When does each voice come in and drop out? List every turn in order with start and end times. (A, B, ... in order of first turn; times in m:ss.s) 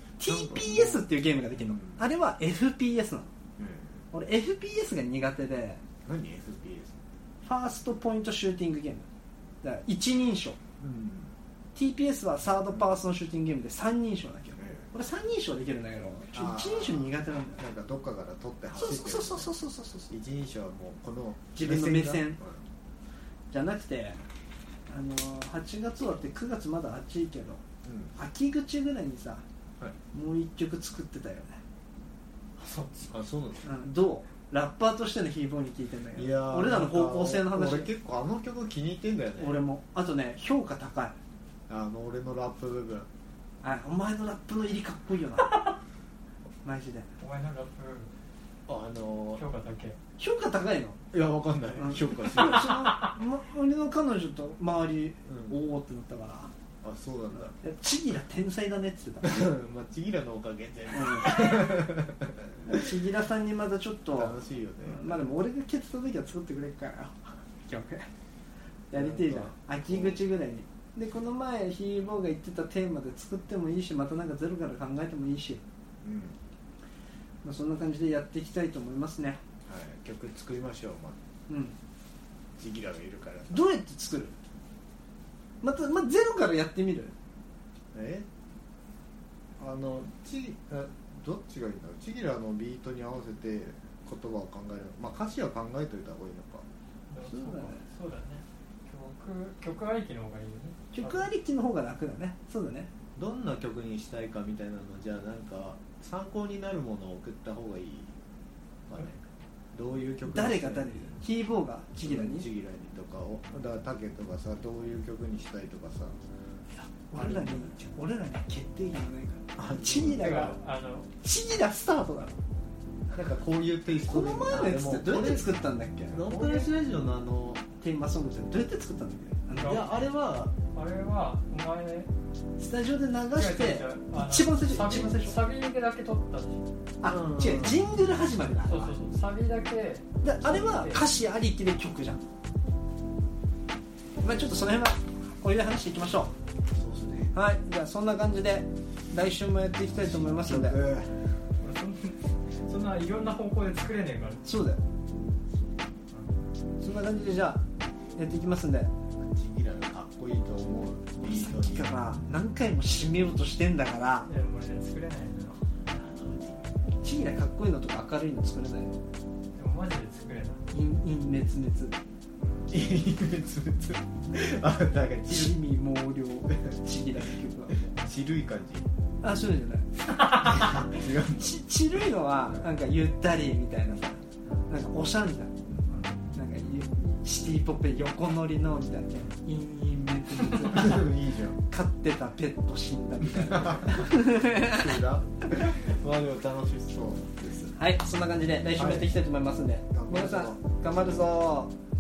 0:00.2-0:03.3 A
0:00.2-0:01.1 B
0:01.6-0:02.0 B
0:03.6-0:04.1 B
0:04.1-0:05.8 A
0:06.0-0:07.1 B
0:07.4-0:09.1 A
0:09.6-0:10.6 A
0:10.8-0:11.3 B
0:11.8-0:17.6 A
0:14.6-0:14.9 B
0:16.3-0:19.5 B
0:18.8-0:20.1 A
0:20.1-0:22.6 B
0:21.6-0:22.4 A
0:23.5-0:24.2 A
0:24.9-0:27.6 A
0:27.8-0:28.1 B
0:28.2-0:29.4 A
0:30.1-0:31.6 A
0:32.6-0:32.9 A
0:33.0-0:33.7 B
0:33.6-0:37.9 A
0:36.2-0:39.6 B
0:39.4-0:41.2 A
0:41.7-0:43.1 B
0:43.6-0:45.7 A
0:46.6-0:47.1 A
0:47.2-0:48.1 C
0:48.7-0:49.4 B
0:49.4-0:50.0 C
0:50.2-0:51.0 A
0:51.1-0:53.1 B
0:51.8-0:56.5 A
0:55.3-0:55.6 B
0:56.8-0:57.6 B
0:57.4-0:59.5 A
0:59.2-1:02.9 B
1:00.9-1:01.8 A
1:02.7-1:08.1 A
1:04.1-1:05.3 B
1:08.9-1:15.6 A
1:08.9-1:10.2 B
1:16.0-1:16.4 B
1:17.4-1:19.4 A
1:19.6-1:21.2 B
1:21.5-1:21.8 A
1:22.6-1:23.7 B
1:23.5-1:24.4 A
1:25.6-1:27.2 A
1:27.9-1:28.3 B
1:29.6-1:36.7 B
1:37.1-1:41.3 C
1:37.2-1:37.8 A
1:40.9-1:42.9 A
1:43.2-1:48.2 B
1:48.9-1:49.2 B
1:49.7-1:51.2 B
1:50.2-1:52.5 A
1:52.0-1:56.2 B
1:57.1-2:00.6 A
1:57.1-1:57.8 B
1:59.6-2:00.3 B
2:00.0-2:01.1 C
2:01.2-2:02.4 A
2:03.1-2:05.6 B
2:04.0-2:06.7 A
2:06.1-2:07.6 B
2:07.8-2:09.8 A
2:09.6-2:10.0 C
2:09.6-2:10.5 B
2:10.7-2:12.1 C
2:12.6-2:15.4 A
2:13.4-2:16.6 C
2:17.0-2:19.0 A
2:17.0-2:17.8 B
2:18.6-2:21.1 C
2:20.2-2:22.2 A
2:24.2-2:26.3 A
2:26.7-2:27.3 B
2:27.3-2:30.8 A
2:29.9-2:31.3 B
2:31.6-2:34.5 C
2:34.4-2:34.8 A
2:36.1-2:36.5 C
2:36.8-2:37.6 A
2:38.2-2:38.9 A
2:39.2-2:42.1 B
2:41.2-2:44.3 A
2:44.3-2:45.6 C
2:45.9-2:46.8 B
2:47.0-2:49.0 A
2:49.6-2:50.6 C
2:50.7-2:52.0 A
2:52.7-2:55.6 B
2:55.3-2:58.0 A
2:56.5-2:56.8 B
2:57.9-2:58.9 B
2:59.2-3:05.5 A
3:00.4-3:01.6 B
3:05.6-3:06.0 B
3:05.9-3:06.2 C
3:06.3-3:11.1 A
3:10.6-3:11.6 B
3:11.7-3:15.0 A
3:13.4-3:17.8 B
3:17.8-3:21.7 A
3:18.8-3:19.2 B
3:19.9-3:20.6 B